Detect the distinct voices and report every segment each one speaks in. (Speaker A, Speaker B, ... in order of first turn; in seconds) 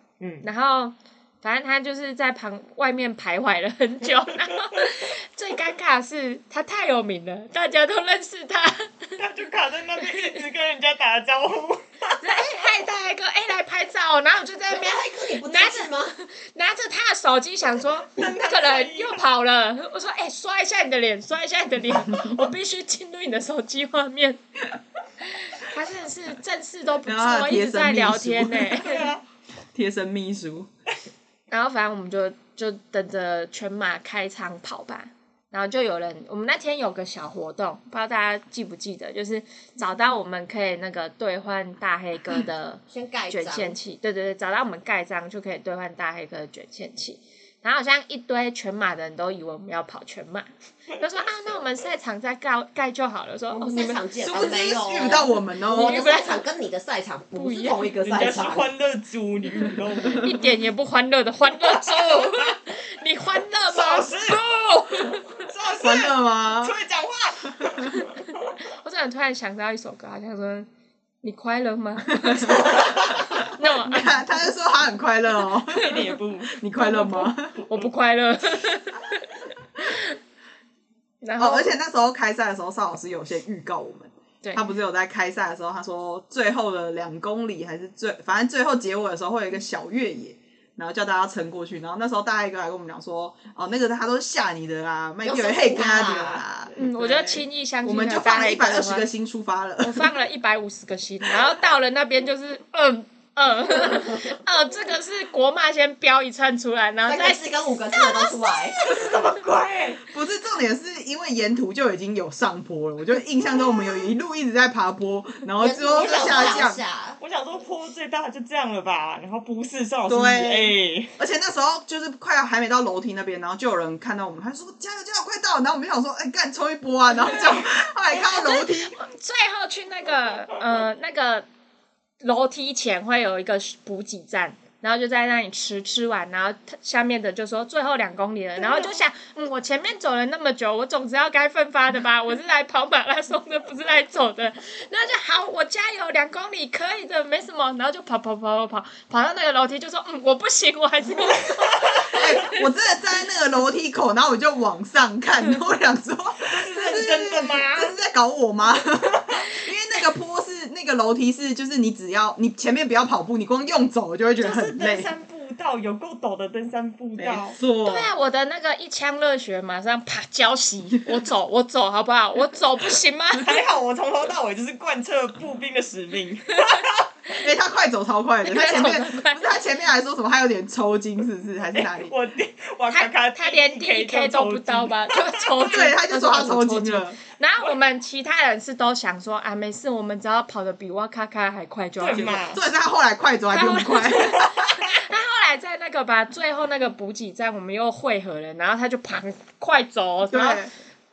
Speaker A: 0.2-0.5, 9.2-12.2, 18.2-19.2, 28.8-29.2, 58.0-60.4, 61.6-62.5, 63.7-64.4, 65.3-68.1, 75.7-76.5, 108.8-110.0, 115.9-121.1, 156.4-157.9, 164.4-167.6, 173.4-177.0, 181.7-185.7, 192.0-192.6, 194.4-194.8
Speaker B: 0.4-9.2, 12.2-24.4, 25.2-29.1, 31.5-55.0, 55.6-56.5, 57.3-57.9, 60.1-65.4, 68.6-70.7, 71.2-74.4, 76.8-79.2, 79.8-80.2, 81.2-81.7, 84.4-84.7, 96.7-99.1, 99.8-108.0, 128.1-131.4, 132.2-152.6, 167.8-173.5, 178.4-179.4, 182.9-192.4, 193.5-200.6
Speaker C: 14.7-16.1, 42.9-43.8, 53.5-58.7, 95.2-96.4, 107.0-109.0, 115.6-117.2
Speaker D: 27.0-28.8, 29.7-30.7, 54.2-56.0, 65.8-66.8, 72.2-77.6, 81.4-100.1, 110.1-116.8, 120.1-128.9, 152.1-165.1, 167.2-168.1, 177.4-182.1, 185.7-187.2, 192.2-194.4, 200.3-200.7